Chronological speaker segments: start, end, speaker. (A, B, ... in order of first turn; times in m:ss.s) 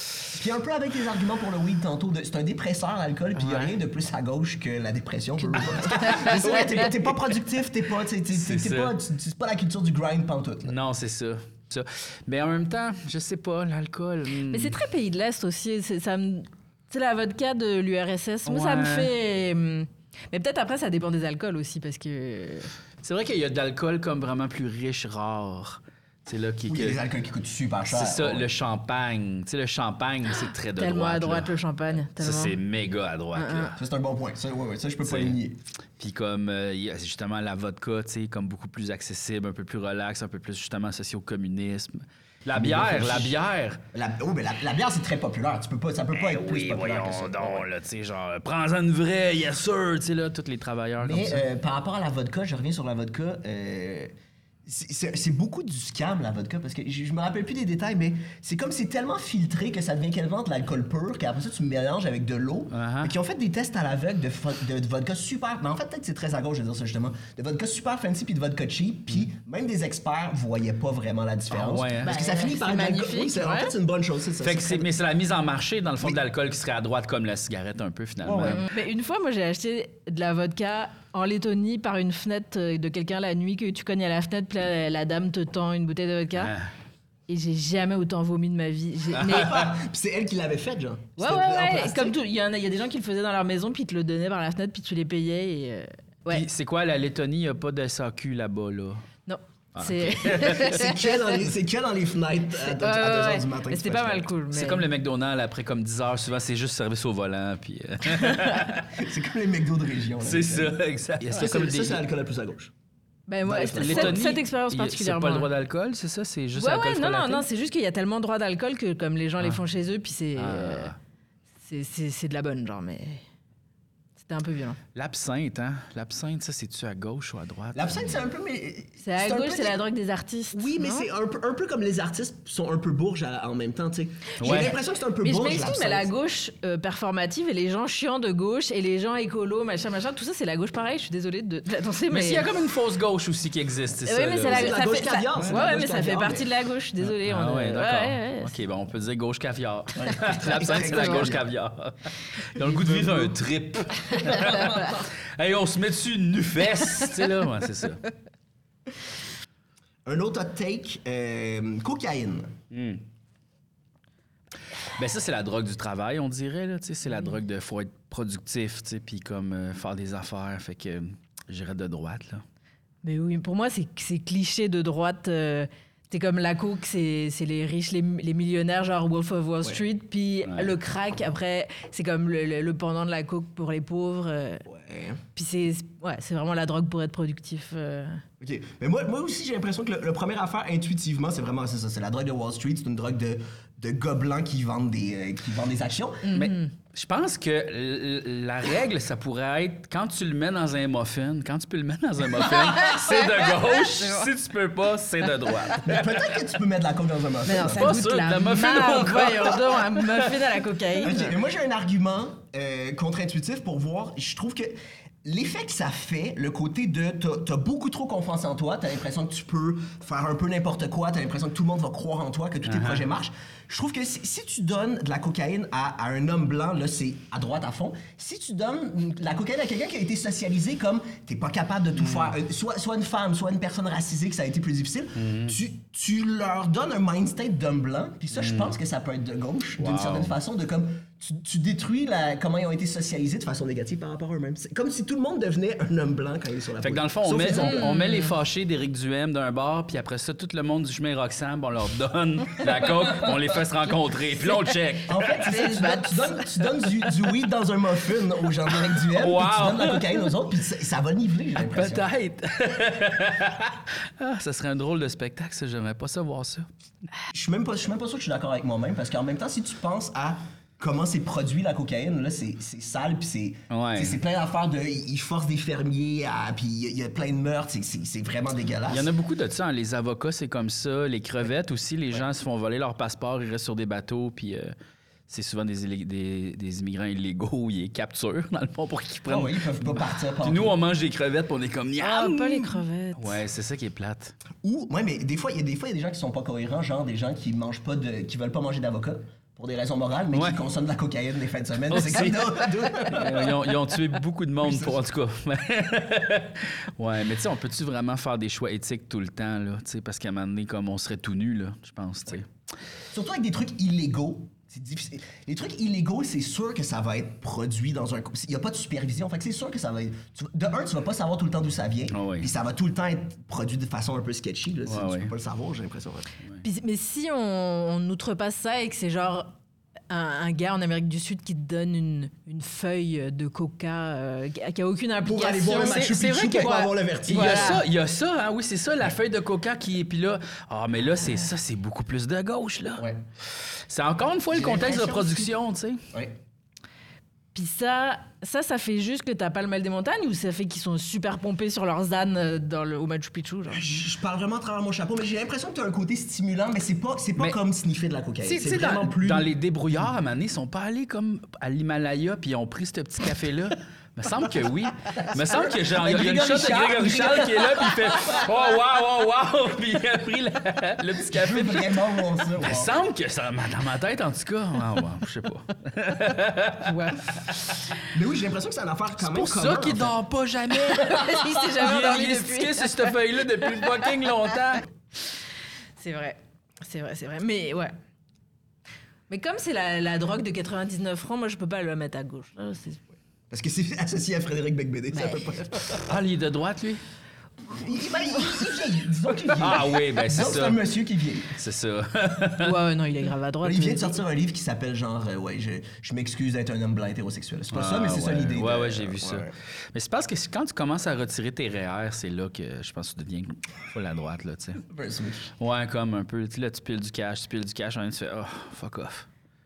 0:00.2-0:10.8 A
0:03.3-0:03.7 B
0:05.5-0:06.8 C
0:05.7-0:07.1 B
0:08.3-0:08.9 B
0:10.6-0:14.8 B
0:14.5-0:22.7 C
0:18.4-0:19.1 B
0:23.0-0:27.0 B
0:26.6-0:28.5 A
0:27.9-0:31.5 B
0:30.8-0:32.6 C
0:32.2-0:33.8 B
0:33.3-0:33.7 C
0:33.7-0:35.6 A
0:35.0-0:35.4 B
0:36.0-0:43.8 B
0:42.5-0:43.4 A
0:43.9-0:47.7 A
0:46.1-0:51.4 B
0:51.0-0:54.1 A
0:54.6-1:14.9 A
1:02.7-1:03.1 B
1:11.5-1:12.2 B
1:12.0-1:13.7 C
1:14.4-1:18.7 B
1:18.2-1:18.6 A
1:18.5-1:26.5 C
1:26.4-1:26.7 B
1:27.3-1:29.7 C
1:29.2-1:32.1 A
1:31.2-1:36.4 C
1:36.3-1:39.0 B
1:39.2-1:41.4 C
1:39.7-1:40.8 B
1:40.5-1:44.3 A
1:42.6-1:44.8 C
1:44.5-1:48.9 B
1:48.9-1:52.7 A
1:50.2-1:52.0 B
1:53.3-1:55.5 C
1:53.4-1:54.2 A
1:53.7-1:57.4 B
1:56.6-2:00.9 C
2:00.4-2:01.0 B
2:01.6-2:03.2 C
2:04.2-2:04.8 C
2:04.9-2:08.2 B
2:07.7-2:09.8 A
2:09.0-2:11.1 C
2:10.5-2:16.1 A
2:14.4-2:14.8 B
2:14.4-2:22.5 C
2:22.1-2:24.8 B
2:24.0-2:28.5 C
2:24.4-2:26.5 A
2:27.0-2:38.0 B
2:30.0-2:31.4 A
2:30.8-2:31.2 C
2:32.6-2:33.3 A
2:34.4-2:34.7 C
2:40.0-2:42.5 A
2:42.7-2:43.0 B
2:44.9-2:52.4 B
2:53.0-3:04.6 C
3:00.4-3:00.7 B
3:04.7-3:05.2 A
3:05.3-3:08.2 C
3:08.4-3:16.3 A
3:16.2-3:16.7 C
3:16.3-3:26.2 B
3:22.8-3:24.3 C
3:25.8-3:27.9 A
3:27.4-3:31.3 C
3:27.6-3:30.3 B
3:31.0-4:07.8 A
3:42.6-3:43.0 B
3:52.0-3:52.3 B
3:55.2-3:55.5 B
3:58.3-3:58.7 B
3:59.8-4:00.3 B
4:06.8-4:15.2 B
4:07.5-4:08.3 C
4:15.1-4:22.0 A
4:15.3-4:16.5 C
4:18.9-4:20.2 B
4:21.6-4:26.7 B
4:27.3-4:39.1 A
4:33.7-4:34.2 B
4:38.9-4:44.7 B
4:45.3-4:54.3 B
4:49.3-4:50.8 A
4:52.0-4:53.4 C
4:54.6-5:03.6 A
5:00.3-5:00.6 B
5:01.9-5:12.5 B
5:04.6-5:05.0 A
5:13.1-5:26.3 A
5:22.1-5:22.5 B
5:24.9-5:25.3 B
5:26.6-5:29.6 C
5:30.1-5:37.8 C
5:35.2-5:37.8 A
5:35.8-5:43.0 B
5:43.7-5:46.0 B
5:44.5-5:45.5 A
5:46.1-5:46.4 A
5:47.5-5:53.9 C
5:53.7-5:59.5 A
5:58.4-6:17.5 B
6:05.1-6:08.4 A
6:11.1-6:13.0 A
6:16.8-6:17.4 C
6:18.0-6:20.2 A
6:19.2-6:24.8 B
6:20.9-6:23.1 C
6:26.0-6:27.9 C
6:29.3-6:33.0 C
6:33.5-6:36.1 A
6:35.1-6:35.5 C
6:36.0-6:37.0 B
6:37.7-6:41.6 A
6:39.5-6:40.8 B
6:41.5-6:42.7 B
6:42.6-6:44.2 C
6:43.6-6:49.5 A
6:47.7-6:54.8 B
6:54.9-6:55.5 A
6:55.6-6:59.3 B